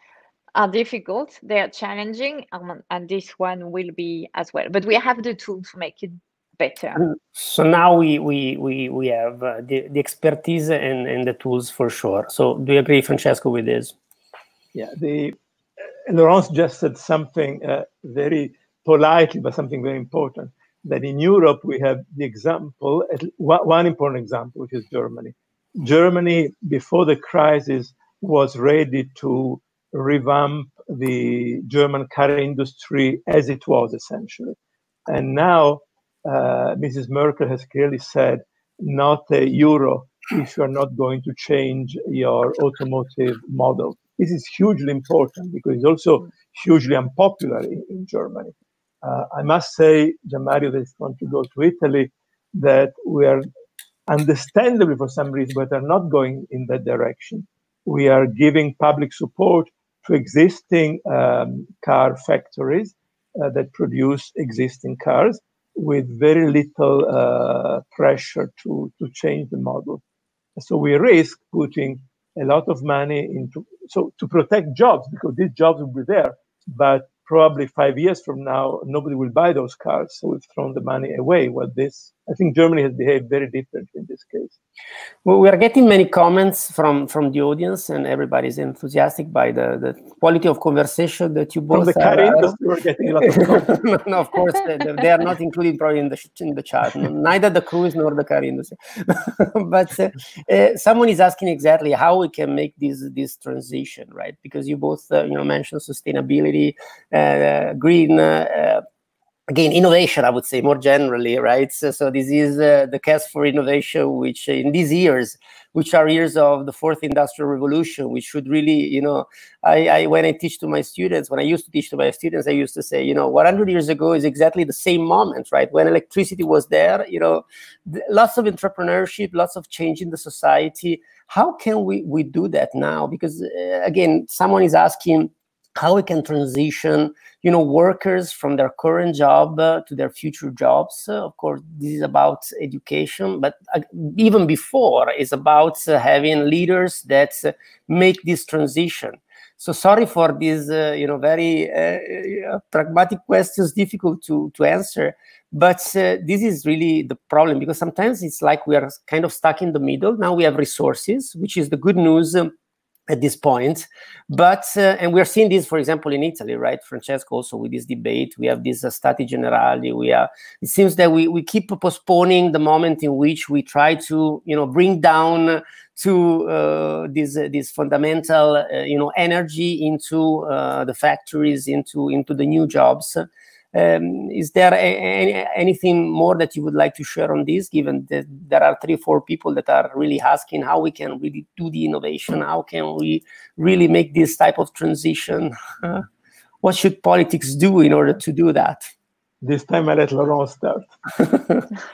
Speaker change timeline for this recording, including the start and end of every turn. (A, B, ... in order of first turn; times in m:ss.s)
0:00.6-0:07.0 A
0:07.1-0:14.0 B
0:14.7-0:15.4 C
0:16.1-0:34.6 C
0:35.1-0:53.5 C
0:54.1-1:10.0 C
1:10.6-1:24.6 C
1:25.2-1:32.5 B
1:31.7-1:33.7 C
1:33.2-1:48.8 B
1:49.5-2:42.5 B
2:43.1-3:16.1 B
3:16.6-3:18.9 B
3:19.4-3:20.9 C
3:21.2-3:21.6 B